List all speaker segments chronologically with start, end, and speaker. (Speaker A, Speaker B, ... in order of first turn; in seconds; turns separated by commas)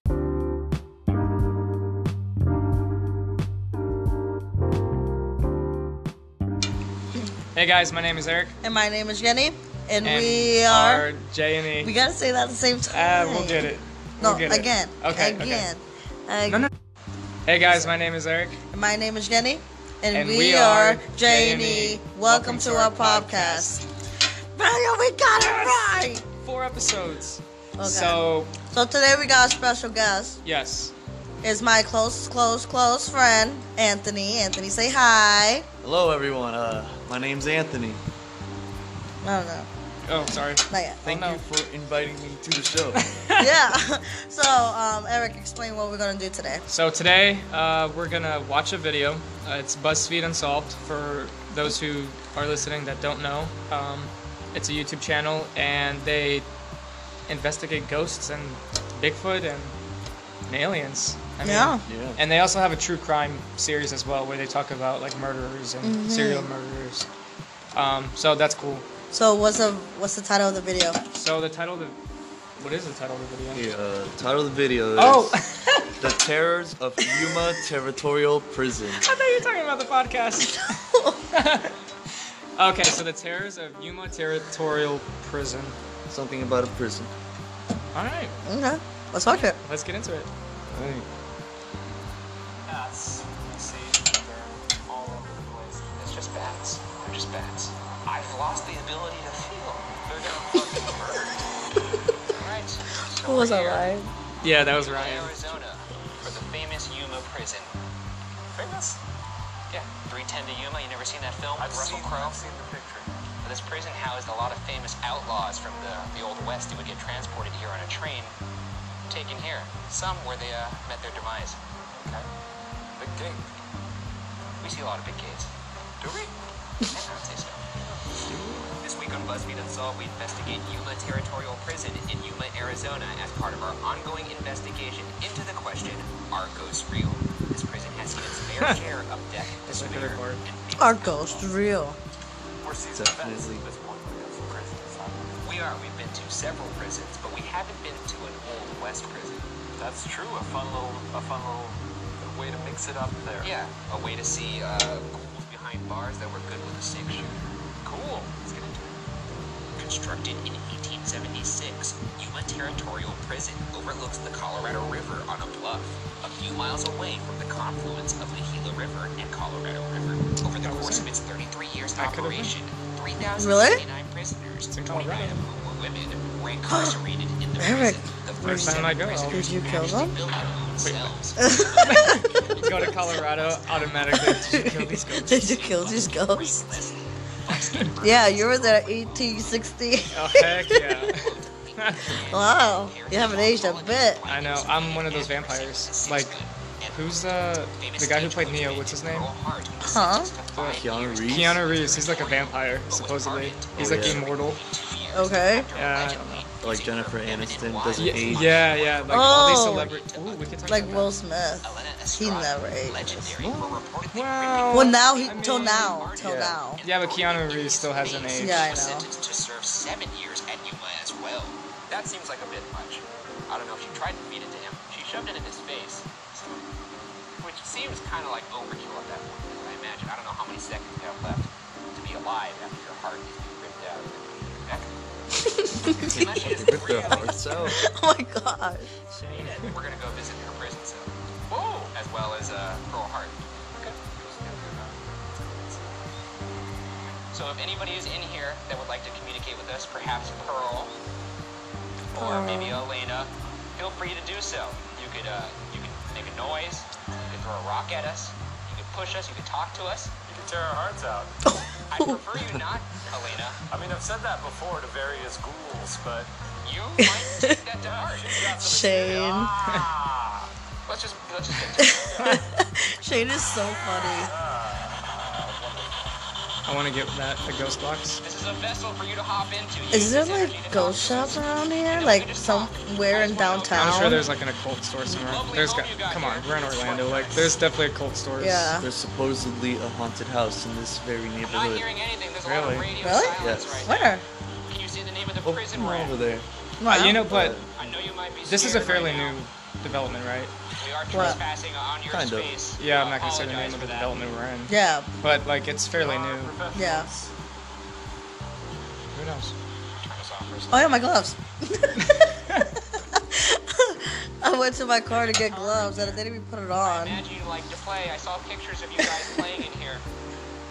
Speaker A: 7.5-8.6, Speaker B: 8.6-11.1, Speaker A: 10.0-11.9, Speaker B: 11.8-16.7, Speaker A: 12.9-15.7, Speaker A: 17.4-18.6, Speaker B: 17.7-17.9, Speaker B: 18.6-23.8, Speaker A: 20.1-23.8, Speaker B: 24.5-26.2, Speaker A: 25.4-25.7, Speaker A: 26.4-28.6, Speaker B: 27.8-30.4, Speaker A: 30.4-30.9, Speaker B: 31.4-35.7, Speaker C: 35.8-38.0, Speaker B: 39.2-39.7, Speaker A: 40.1-41.4, Speaker B: 40.7-41.0, Speaker C: 41.0-43.0, Speaker A: 43.0-43.5, Speaker B: 43.4-46.7, Speaker A: 46.7-56.5, Speaker A: 57.3-59.7, Speaker A: 60.5-67.1, Speaker B: 61.4-61.9, Speaker C: 61.9-62.2, Speaker B: 65.8-66.5, Speaker A: 67.8-68.9, Speaker B: 69.1-71.0, Speaker A: 71.1-72.0, Speaker A: 72.6-73.7, Speaker C: 73.5-75.4, Speaker A: 75.0-76.0, Speaker C: 76.0-79.1, Speaker A: 77.0-77.4, Speaker A: 78.9-80.8, Speaker B: 80.4-81.2, Speaker A: 81.3-85.8, Speaker C: 86.1-87.1, Speaker A: 87.9-88.4, Speaker B: 88.4-89.6, Speaker A: 89.3-90.3, Speaker C: 90.7-91.1, Speaker D: 92.7-96.0, Speaker E: 96.0-101.2, Speaker D: 100.1-101.2, Speaker E: 102.3-103.9, Speaker B: 103.2-104.1, Speaker A: 104.4-105.4, Speaker E: 104.4-107.8, Speaker D: 108.5-109.0, Speaker E: 109.7-112.5, Speaker D: 111.6-113.1, Speaker E: 113.4-118.3, Speaker E: 119.1-121.6, Speaker D: 122.0-122.3, Speaker D: 123.0-123.5, Speaker E: 124.6-125.5, Speaker D: 126.0-126.3, Speaker E: 126.9-127.6, Speaker A: 128.3-128.6, Speaker E: 128.8-141.5, Speaker A: 139.6-140.4, Speaker B: 140.8-142.0, Speaker D: 142.6-145.4, Speaker C: 142.9-143.6, Speaker E: 145.4-149.4, Speaker D: 149.8-153.5, Speaker E: 153.4-158.9, Speaker D: 157.8-158.3, Speaker E: 159.8-184.7, Speaker A: 170.6-171.1, Speaker A: 171.9-172.5, Speaker B: 173.2-173.8, Speaker A: 174.7-175.4, Speaker B: 176.7-176.9, Speaker B: 177.6-180.2, Speaker A: 178.4-179.8, Speaker A: 180.8-185.6, Speaker B: 181.4-182.8, Speaker B: 184.1-186.7, Speaker E: 185.3-189.7, Speaker A: 187.5-187.9, Speaker B: 188.0-191.1, Speaker A: 190.1-192.2, Speaker E: 190.9-197.2, Speaker B: 192.2-194.2, Speaker A: 194.3-196.3, Speaker A: 196.9-199.3, Speaker E: 197.8-210.6, Speaker B: 199.8-200.3, Speaker A: 200.5-204.6, Speaker C: 200.7-201.6, Speaker C: 203.8-204.2, Speaker B: 205.1-205.7, Speaker A: 205.8-206.4, Speaker C: 206.6-208.6, Speaker A: 207.9-211.1, Speaker B: 209.1-209.9, Speaker B: 210.7-213.3, Speaker E: 211.6-226.6, Speaker A: 213.4-215.9, Speaker B: 214.7-216.8, Speaker C: 216.2-216.6, Speaker A: 216.8-218.7, Speaker B: 218.3-219.1, Speaker E: 227.4-234.9, Speaker B: 235.4-236.2, Speaker E: 236.0-237.8, Speaker C: 236.0-237.8, Speaker B: 237.0-238.9, Speaker A: 239.1-239.8, Speaker E: 239.3-244.0, Speaker D: 244.0-245.9, Speaker E: 247.3-250.9, Speaker E: 252.1-260.1, Speaker B: 252.1-252.8, Speaker D: 260.3-261.4, Speaker B: 261.4-262.2, Speaker E: 261.9-263.6, Speaker D: 263.7-266.3, Speaker E: 266.6-268.4, Speaker B: 267.0-267.6, Speaker D: 267.8-270.4, Speaker B: 268.4-269.6, Speaker E: 269.6-269.9, Speaker E: 270.9-272.2, Speaker B: 271.8-274.3, Speaker D: 273.6-276.2, Speaker A: 276.6-278.2, Speaker E: 278.2-284.2, Speaker B: 279.9-284.2, Speaker A: 283.7-288.7, Speaker E: 285.1-287.6, Speaker B: 288.4-288.9, Speaker C: 288.8-291.8, Speaker E: 291.4-296.2, Speaker A: 292.4-292.9, Speaker B: 293.0-294.2, Speaker C: 293.4-293.9, Speaker C: 295.4-296.5, Speaker B: 296.8-297.2, Speaker A: 296.9-297.6, Speaker C: 297.3-297.7, Speaker E: 297.7-299.4, Speaker A: 298.5-300.5, Speaker E: 300.8-304.2, Speaker B: 301.1-301.4, Speaker C: 302.1-302.5, Speaker A: 302.8-306.6, Speaker B: 304.7-305.1, Speaker D: 305.9-307.3, Speaker B: 306.7-307.1, Speaker A: 309.1-309.5, Speaker E: 310.0-311.1, Speaker B: 310.7-312.4, Speaker A: 312.0-312.7, Speaker B: 312.9-317.2, Speaker E: 315.2-316.2, Speaker E: 316.8-320.0